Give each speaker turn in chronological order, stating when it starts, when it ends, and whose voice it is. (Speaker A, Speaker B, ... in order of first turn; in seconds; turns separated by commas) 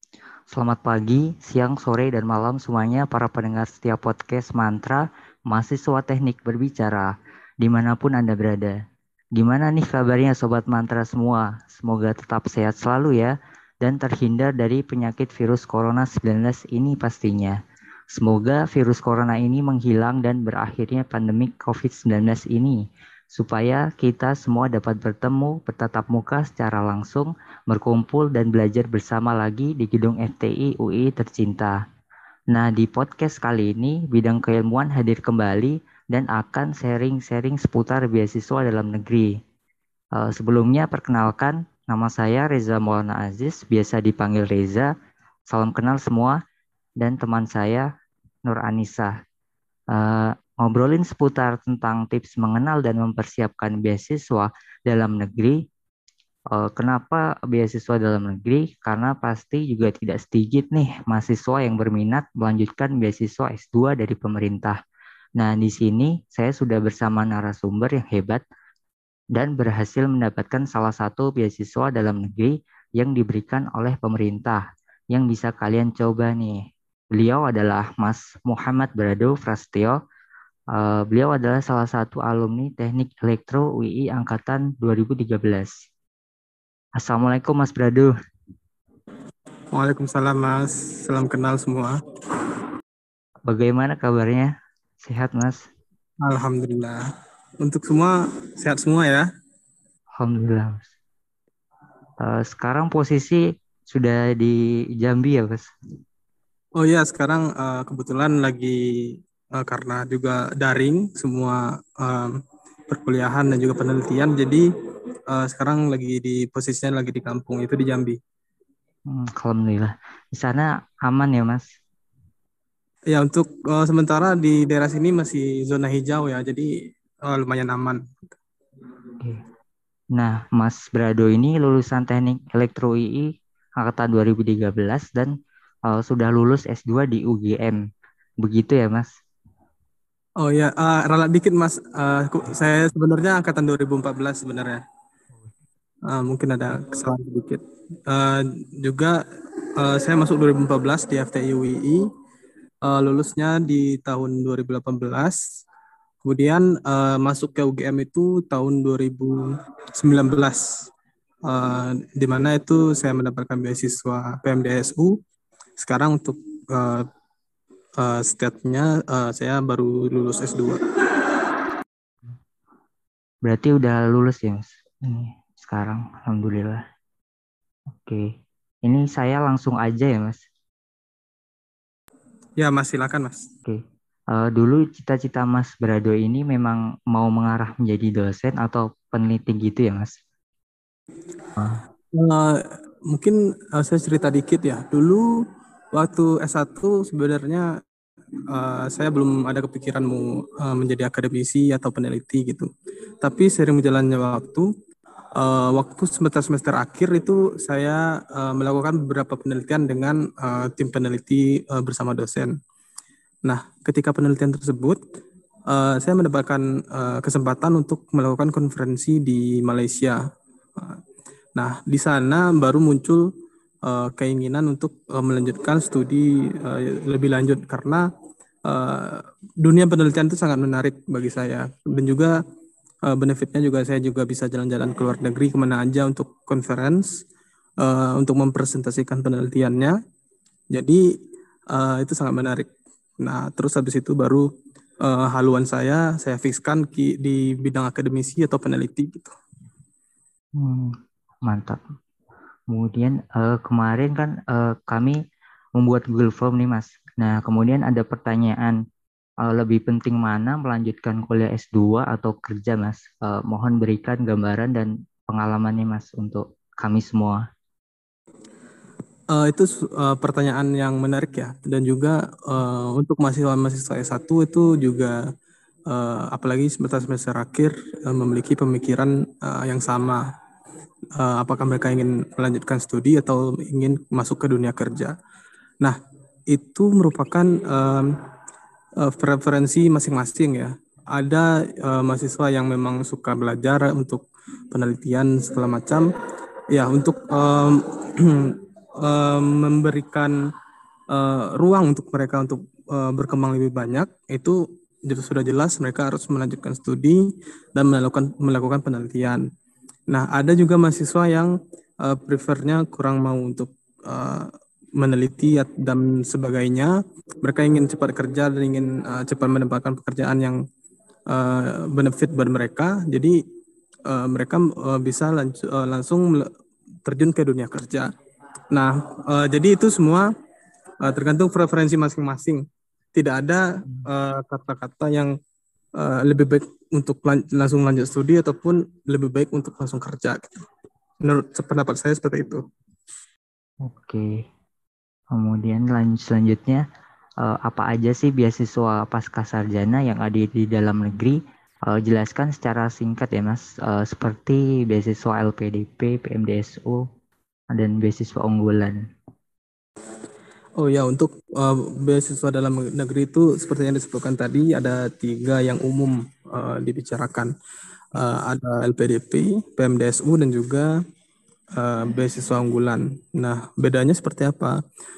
Speaker A: 0.5-8.8, Speaker A: 9.4-17.6, Speaker A: 18.1-31.8, Speaker A: 32.5-39.3, Speaker A: 40.2-44.9, Speaker A: 45.5-46.4, Speaker A: 47.0-47.9, Speaker A: 48.5-49.1, Speaker A: 49.9-55.6, Speaker A: 56.5-64.8, Speaker A: 65.4-68.4, Speaker A: 69.3-76.6, Speaker A: 77.1-80.0, Speaker A: 80.8-85.7, Speaker A: 87.0-88.1, Speaker B: 89.7-92.0, Speaker A: 93.5-94.5, Speaker A: 95.0-95.6, Speaker B: 96.2-97.0, Speaker B: 97.6-99.3, Speaker A: 100.2-100.8, Speaker A: 102.2-105.7, Speaker B: 106.8-112.4, Speaker B: 112.9-114.7, Speaker B: 115.3-118.2, Speaker A: 119.1-121.7, Speaker B: 123.1-126.7, Speaker B: 127.3-128.0, Speaker A: 130.2-133.3, Speaker A: 133.8-135.3, Speaker A: 135.9-137.8, Speaker A: 138.4-139.1, Speaker B: 140.4-144.8, Speaker B: 146.1-149.2, Speaker B: 149.8-152.0, Speaker B: 152.8-155.4, Speaker B: 156.2-159.4, Speaker B: 160.0-160.9, Speaker B: 161.5-165.1, Speaker B: 165.8-167.1, Speaker B: 168.0-170.8, Speaker A: 173.5-176.8, Speaker A: 177.9-178.2, Speaker A: 178.8-180.4, Speaker B: 182.6-183.4, Speaker A: 184.3-190.1, Speaker A: 191.6-191.8, Speaker B: 192.2-195.3, Speaker B: 195.9-197.7, Speaker B: 198.5-202.7, Speaker B: 203.2-204.7, Speaker B: 205.4-212.5, Speaker B: 213.5-215.0, Speaker B: 215.7-220.2, Speaker B: 221.6-223.3, Speaker B: 223.8-228.1, Speaker B: 228.7-232.4, Speaker B: 233.1-237.1, Speaker B: 237.8-240.0, Speaker B: 240.7-241.0, Speaker B: 241.7-242.7, Speaker B: 243.2-244.5, Speaker B: 245.0-249.3, Speaker A: 250.6-250.9, Speaker A: 251.5-251.8, Speaker A: 252.7-255.2, Speaker A: 255.8-258.8, Speaker A: 259.4-267.4, Speaker B: 269.3-275.2, Speaker B: 275.9-280.2, Speaker B: 281.2-285.1, Speaker B: 286.5-288.2, Speaker B: 289.0-296.1, Speaker B: 296.7-300.3, Speaker B: 301.1-309.4, Speaker B: 310.1-320.6, Speaker B: 321.3-323.4, Speaker B: 324.1-326.5, Speaker B: 327.1-328.1, Speaker B: 328.7-330.3, Speaker B: 331.0-332.6, Speaker B: 333.1-335.3, Speaker B: 336.0-340.6, Speaker B: 341.2-342.6, Speaker A: 343.9-344.3, Speaker A: 345.3-346.8, Speaker A: 347.4-351.4, Speaker A: 351.9-357.0, Speaker A: 357.7-359.0, Speaker B: 360.8-367.5, Speaker B: 368.2-370.9, Speaker B: 371.8-374.8